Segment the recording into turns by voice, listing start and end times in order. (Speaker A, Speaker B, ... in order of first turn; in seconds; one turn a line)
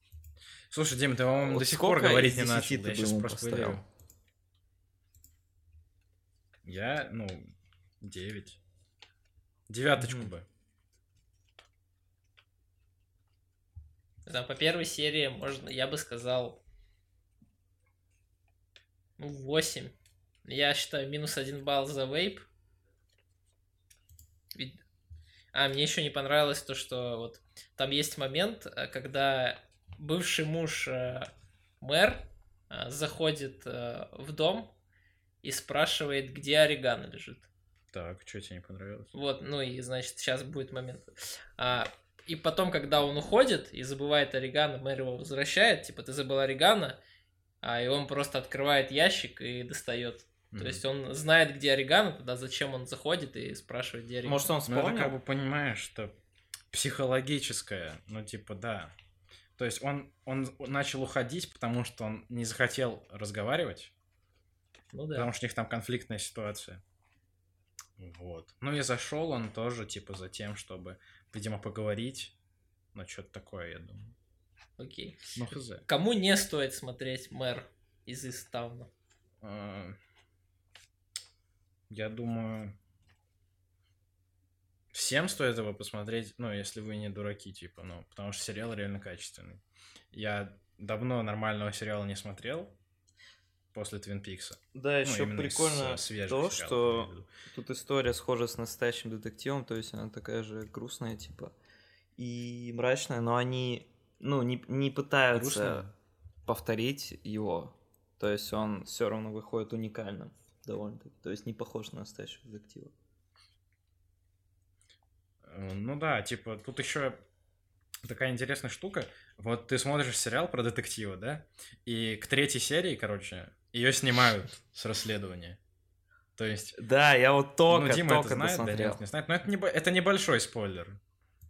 Speaker A: 0.7-3.8
Speaker B: 1.4-3.8
Speaker A: 6.6-8.6
Speaker A: 9.7-10.4
Speaker B: 10.0-10.3
Speaker C: 14.2-16.6
Speaker C: 19.2-19.9
Speaker C: 20.4-22.4
Speaker C: 24.5-24.8
Speaker C: 25.5-34.7
Speaker C: 35.4-37.5
Speaker A: 37.9-39.1
Speaker C: 39.1-47.0
Speaker C: 47.6-54.5
Speaker A: 50.5-50.8
Speaker B: 54.2-55.1
Speaker A: 54.7-56.1
Speaker A: 56.7-58.9
Speaker A: 59.6-63.9
Speaker C: 64.9-65.3
Speaker A: 65.1-66.8
Speaker A: 68.0-72.3
Speaker A: 72.9-74.2
Speaker C: 74.8-78.9
Speaker A: 75.3-75.9
Speaker A: 79.4-80.0
Speaker A: 81.9-82.8
Speaker A: 84.9-89.6
Speaker A: 90.1-92.8
Speaker A: 93.7-97.3
Speaker B: 94.7-101.5
Speaker B: 102.2-105.8
Speaker A: 105.3-105.9
Speaker B: 106.5-112.9
Speaker A: 115.4-117.2
Speaker A: 118.0-125.6
Speaker A: 126.3-126.8
Speaker B: 126.8-129.0
Speaker A: 127.7-131.0